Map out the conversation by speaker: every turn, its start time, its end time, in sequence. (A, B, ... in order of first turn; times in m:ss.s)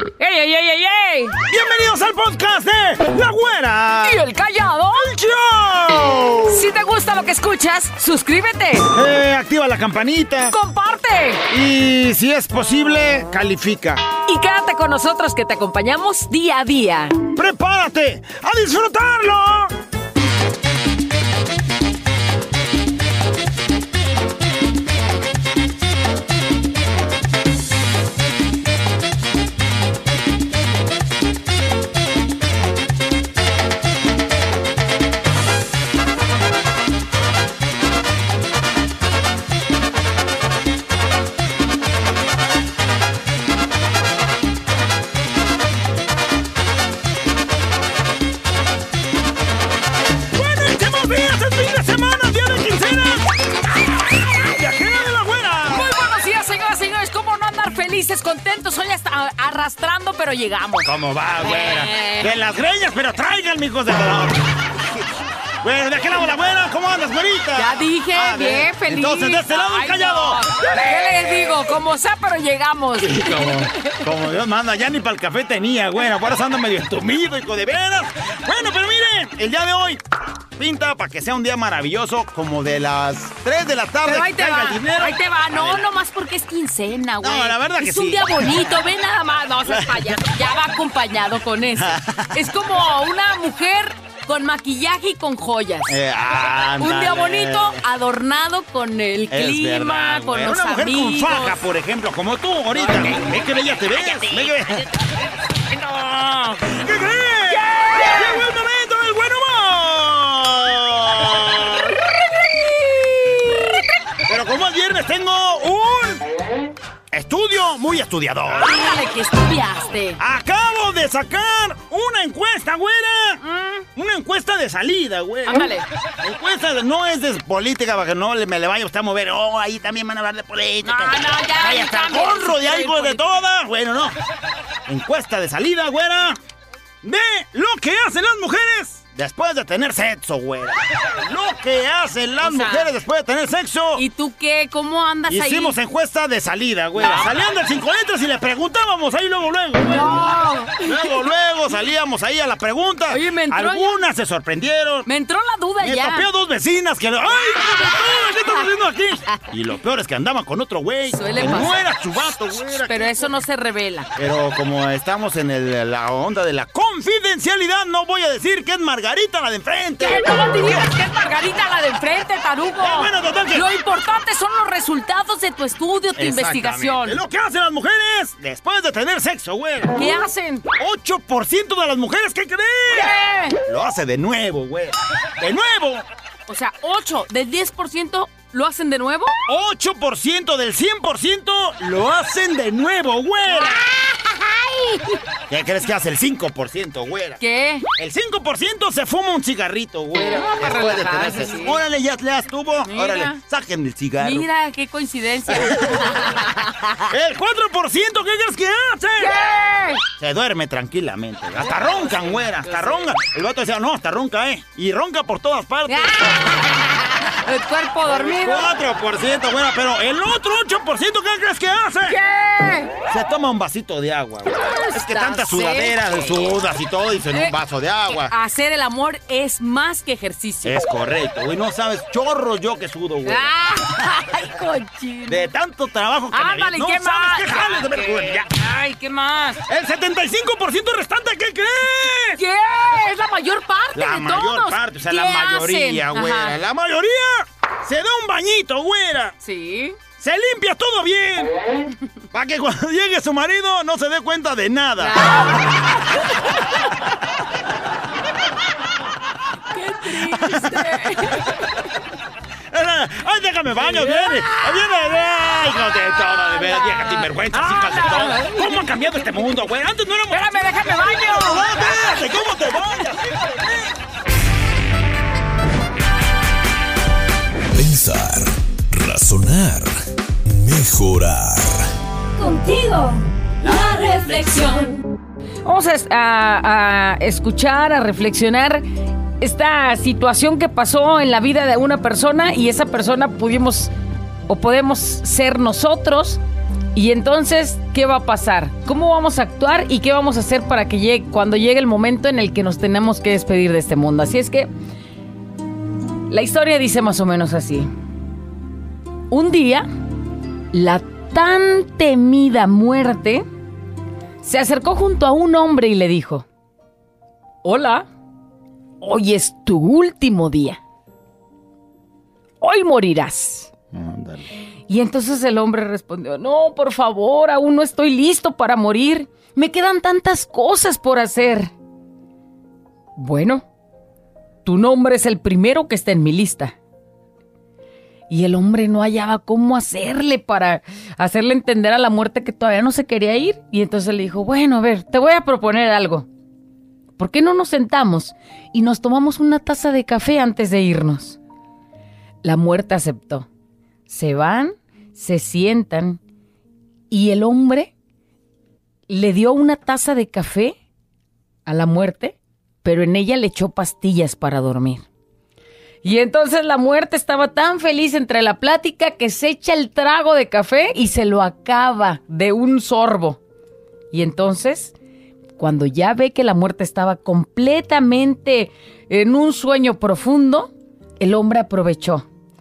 0:00.2-0:01.4 A
0:01.5-0:04.2 B
0:04.0-0:05.1 A
0:05.0-0:06.7 B
0:06.5-0:08.9 A
0:08.9-0:10.6 B
0:10.5-0:11.4 A
0:11.5-0:14.1 B
0:14.3-0:17.2 A
0:17.3-0:19.7 B
0:50.3-0:53.3 B
0:54.2-0:55.9 B
0:55.7-1:00.9 A
1:00.8-1:04.5 B
1:01.4-1:02.3 A
1:05.6-1:10.4 B
1:07.6-1:13.6 A
1:11.1-1:11.6 B
1:13.0-1:20.0 B
1:20.6-1:25.8 B
1:24.0-1:36.0 A
1:27.2-1:28.8 B
1:29.7-1:30.4 B
1:31.7-1:32.4 B
1:35.9-1:37.8 B
1:36.8-1:41.6 A
1:39.3-1:44.8 B
1:42.8-1:43.3 A
1:43.9-1:44.5 A
1:45.8-1:52.0 B
1:47.6-1:48.4 A
1:52.6-1:53.6 A
1:54.3-1:56.2 B
1:57.1-1:58.9 B
1:58.5-2:00.2 A
2:00.2-2:03.4 B
2:03.4-2:03.9 A
2:04.0-2:14.2 B
2:05.5-2:05.9 A
2:10.8-2:13.3 A
2:14.9-2:16.4 B
2:17.0-2:24.0 B
2:22.4-2:22.9 A
2:24.0-2:25.8 A
2:25.3-2:35.1 B
2:27.0-2:27.3 A
2:29.8-2:31.2 A
2:33.1-2:34.0 A
2:35.1-2:36.3 A
2:35.8-2:43.2 B
2:37.4-2:37.9 A
2:41.1-2:41.7 A
2:42.7-2:44.1 A
2:44.2-2:50.9 B
2:50.0-2:57.2 A
2:52.8-2:53.7 B
2:56.2-3:00.0 B
3:00.0-3:00.6 A
3:00.8-3:03.1 B
3:02.9-3:03.6 A
3:03.6-3:06.1 B
3:06.5-3:09.4 A
3:09.5-3:13.8 B
3:13.5-3:15.1 A
3:15.5-3:17.4 B
3:17.4-3:17.9 A
3:18.0-3:24.5 B
3:20.2-3:21.8 A
3:22.8-3:23.4 A
3:24.2-3:26.7 A
3:25.5-3:26.2 B
3:27.1-3:29.4 B
3:29.2-3:30.0 A
3:30.2-3:36.4 B
3:31.8-3:33.1 A
3:35.9-3:38.7 A
3:38.1-3:42.2 B
3:42.1-3:42.9 A
3:43.1-3:48.3 B
3:44.7-3:46.6 A
3:48.1-3:50.9 A
3:50.6-3:54.0 B
3:53.2-3:55.5 A
3:55.3-3:58.5 B
3:56.3-3:59.6 A
3:59.7-4:02.4 B
4:02.4-4:06.6 A
4:03.9-4:09.4 B
4:09.4-4:10.0 A
4:10.2-4:11.6 B
4:12.3-4:15.7 B
4:15.0-4:15.8 A
4:19.7-4:21.7 A
4:20.2-4:20.8 B
4:22.7-4:33.9 B
4:23.8-4:29.5 A
4:30.3-4:32.2 A
4:37.7-4:39.9 C
4:40.4-4:41.9 C
4:43.8-4:44.6 B
4:45.6-4:48.8 A
4:49.4-4:53.9 A
4:54.5-4:56.4 A
4:57.0-5:04.7 A
5:06.3-5:07.9 A
5:09.3-5:09.9 A
5:10.7-5:13.4 A
5:14.4-5:16.5 A
5:17.6-5:18.1 A
5:19.0-5:20.8 A
5:22.6-5:23.7 A
5:23.9-5:24.5 B
5:24.9-5:31.7 A
5:33.2-5:33.6 A
5:34.6-5:36.7 A
5:38.3-5:46.3 A
5:47.2-5:51.4 A
5:52.4-5:53.5 A
5:54.1-5:56.2 A
5:57.1-5:57.9 A
5:59.1-6:00.8 A
6:01.7-6:05.0 A
6:06.0-6:13.4 A
6:14.1-6:14.9 A
6:15.6-6:22.3 A